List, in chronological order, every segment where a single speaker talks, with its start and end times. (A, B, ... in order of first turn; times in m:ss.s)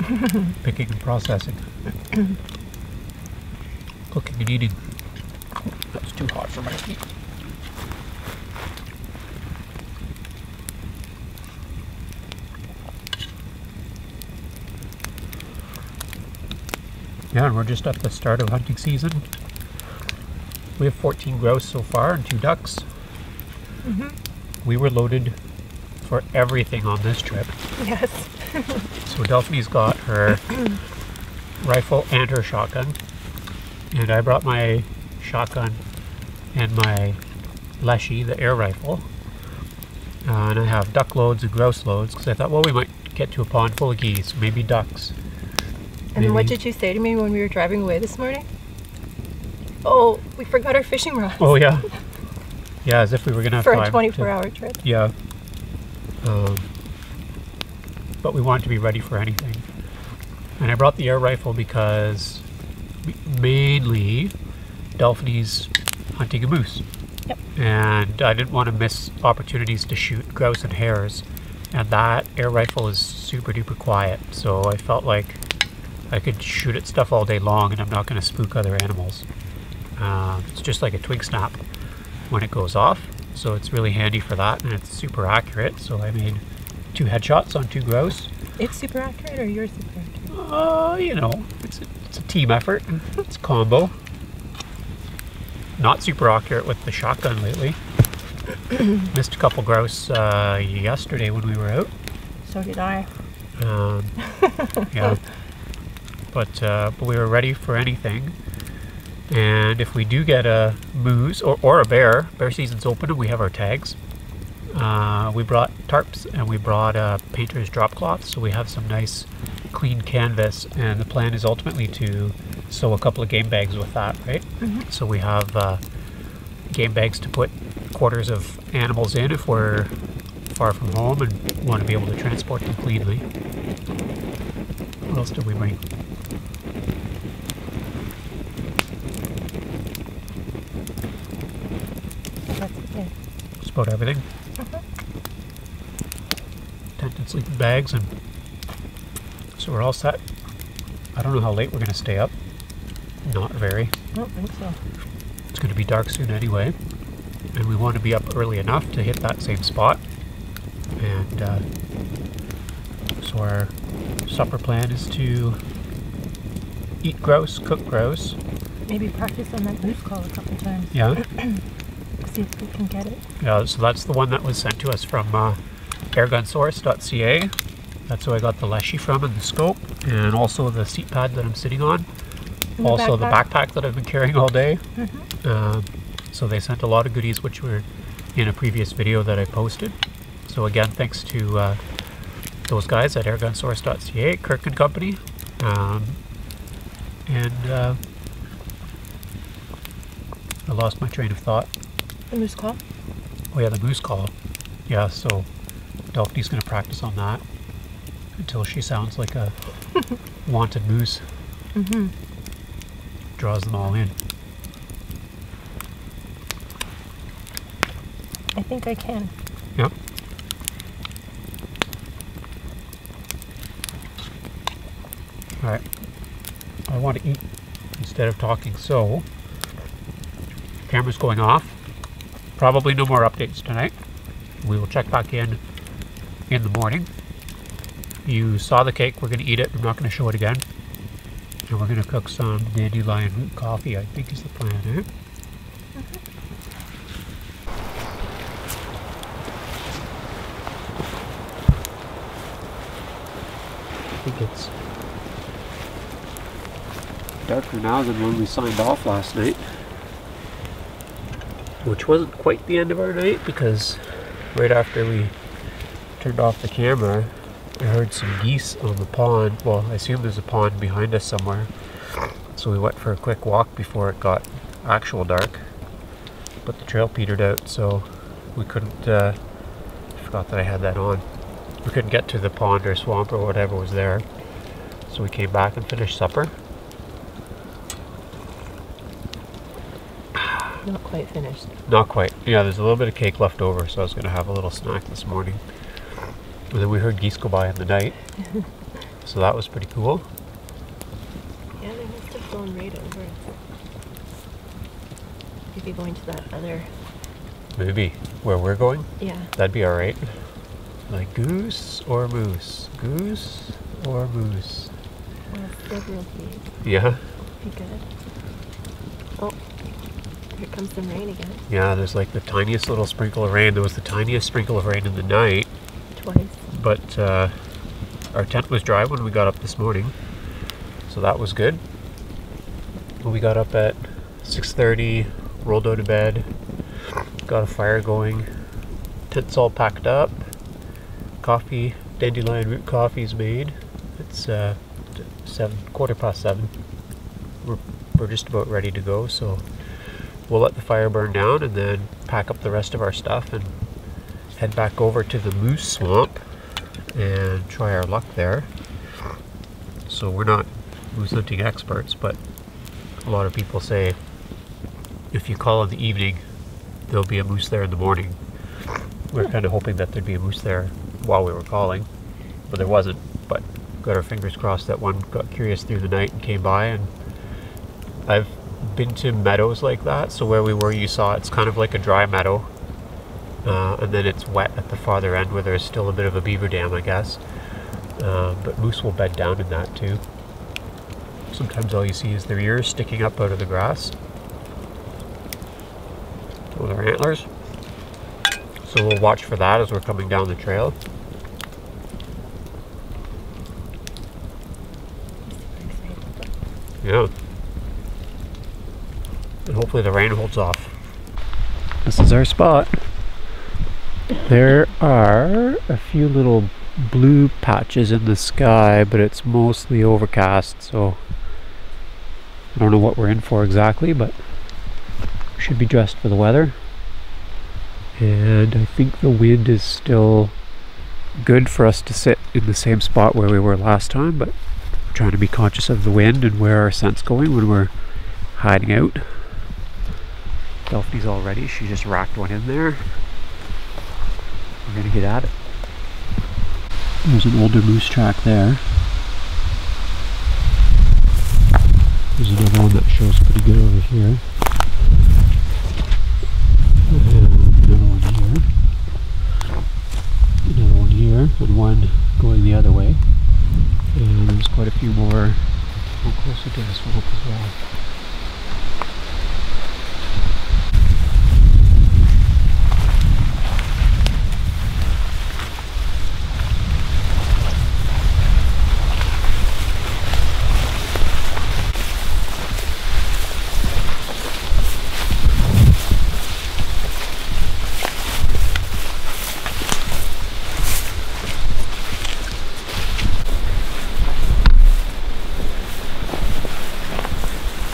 0:00.4-0:01.7 A
0:04.1-0:04.8 A
0:05.9-0:07.0 A
0:17.3-0:19.3 A
0:20.8-0:22.9 A
0:23.8-0:24.2 B
0:24.6-0:25.4 A
0:26.0-0:27.6 A
0:27.8-0:28.9 B
0:29.1-0:30.7 A
0:31.6-0:33.0 A
0:33.9-0:35.8 A
0:36.5-0:37.2 A
0:37.8-0:39.1 A
0:40.2-0:45.2 A
0:46.1-0:48.5 B
0:46.2-0:46.6 A
0:49.8-0:51.7 B
0:51.4-0:51.9 A
0:52.8-0:55.1 A
0:53.6-0:54.8 B
0:56.2-0:56.7 A
0:58.2-0:59.7 A
1:00.6-1:02.4 A
1:03.0-1:04.3 A
1:05.0-1:06.8 A
1:07.6-1:15.4 A
1:16.1-1:19.3 A
1:20.0-1:21.6 A
1:22.3-1:26.4 A
1:26.9-1:28.3 A
1:28.6-1:30.2 B
1:30.3-1:33.9 A
1:35.8-1:37.8 A
1:39.0-1:41.9 A
1:42.4-1:43.1 B
1:43.6-1:44.2 A
1:44.2-1:45.1 B
1:44.8-1:45.2 A
1:46.3-1:48.4 A
1:49.3-1:54.0 A
1:54.7-2:05.8 A
2:04.6-2:04.9 B
2:06.7-2:09.9 A
2:10.5-2:13.3 A
2:15.1-2:15.8 A
2:22.5-2:23.1 B
2:23.6-2:24.2 A
2:24.6-2:24.8 B
2:27.0-2:28.1 A
2:29.6-2:30.2 A
2:31.2-2:32.3 A
2:33.2-2:33.9 A
2:34.1-2:34.8 B
2:35.5-2:36.8 A
2:37.5-2:40.0 A
2:41.0-2:41.6 A
2:43.2-2:43.7 A
2:44.3-2:45.6 A
2:47.0-2:48.4 A
2:48.9-2:51.6 B
2:50.9-2:51.2 A
2:52.2-2:53.2 B
2:53.4-2:55.6 A
2:56.1-2:57.5 A
2:58.1-3:02.1 A
3:02.8-3:03.4 B
3:02.8-3:04.8 A
3:05.0-3:05.3 B
3:05.4-3:10.0 A
3:10.5-3:11.8 A
3:12.7-3:16.2 A
3:17.3-3:18.0 A
3:20.7-3:21.7 A
3:22.3-3:22.8 B
3:23.5-3:24.3 A
3:24.9-3:25.5 A
3:26.1-3:27.4 A
3:28.4-3:29.6 A
3:30.5-3:31.2 A
3:31.7-3:32.1 B
3:33.4-3:34.2 A
3:38.5-3:39.3 B
3:46.9-3:47.4 A
3:48.0-3:49.3 A
3:50.9-3:51.8 A
3:52.6-3:54.0 A
3:54.6-3:55.6 A
3:56.5-3:57.1 A
3:58.2-4:00.6 A
4:01.7-4:05.1 A
4:05.9-4:06.2 B
4:14.2-4:14.7 A
4:17.5-4:19.7 A
4:21.8-4:24.0 A
4:24.5-4:25.4 A
4:26.2-4:31.7 A
4:32.5-4:35.6 A
4:36.6-4:39.4 A
4:40.2-4:41.2 A
4:41.8-4:44.3 A
4:45.1-4:46.6 A
4:50.8-4:51.8 B
4:51.9-4:55.6 A
4:56.7-4:58.2 A
4:59.2-5:00.3 A
5:01.8-5:03.6 B
5:05.7-5:06.9 B
5:07.8-5:10.3 A
5:09.2-5:09.5 B
5:11.1-5:14.9 A
5:15.5-5:16.8 B
5:16.8-5:17.2 A
5:17.6-5:18.0 B
5:20.6-5:21.6 B
5:21.7-5:25.7 A
5:26.2-5:26.6 B
5:26.7-5:27.5 A
5:28.3-5:30.2 A
5:31.1-5:31.8 A
5:33.2-5:36.5 A
5:37.5-5:38.5 A
5:39.3-5:40.4 A
5:41.4-5:46.7 A
5:47.6-5:49.6 A
5:50.5-5:53.8 A
5:54.6-5:56.4 A
5:57.1-5:58.7 A
6:00.1-6:02.4 A
6:03.2-6:04.2 A
6:05.3-6:06.4 A
6:07.1-6:08.4 A
6:09.3-6:12.1 A
6:12.7-6:17.1 A
6:18.3-6:22.7 A
6:23.6-6:27.4 A
6:28.2-6:30.2 A
6:31.5-6:34.2 A
6:36.7-6:37.5 A
6:38.8-6:41.0 A
6:45.4-6:46.5 B
6:47.0-6:47.3 A
6:49.7-6:51.0 A
6:52.0-6:52.9 A
6:54.4-7:01.2 A
7:02.7-7:04.4 A
7:05.6-7:06.8 A
7:08.2-7:10.6 A
7:11.4-7:14.5 A
7:15.1-7:17.9 A
7:18.6-7:19.3 A
7:20.9-7:23.2 A
7:24.8-7:25.5 A
7:27.2-7:28.8 A
7:32.4-7:34.4 A
7:37.1-7:38.7 A
7:40.6-7:43.2 A
7:44.1-7:47.8 A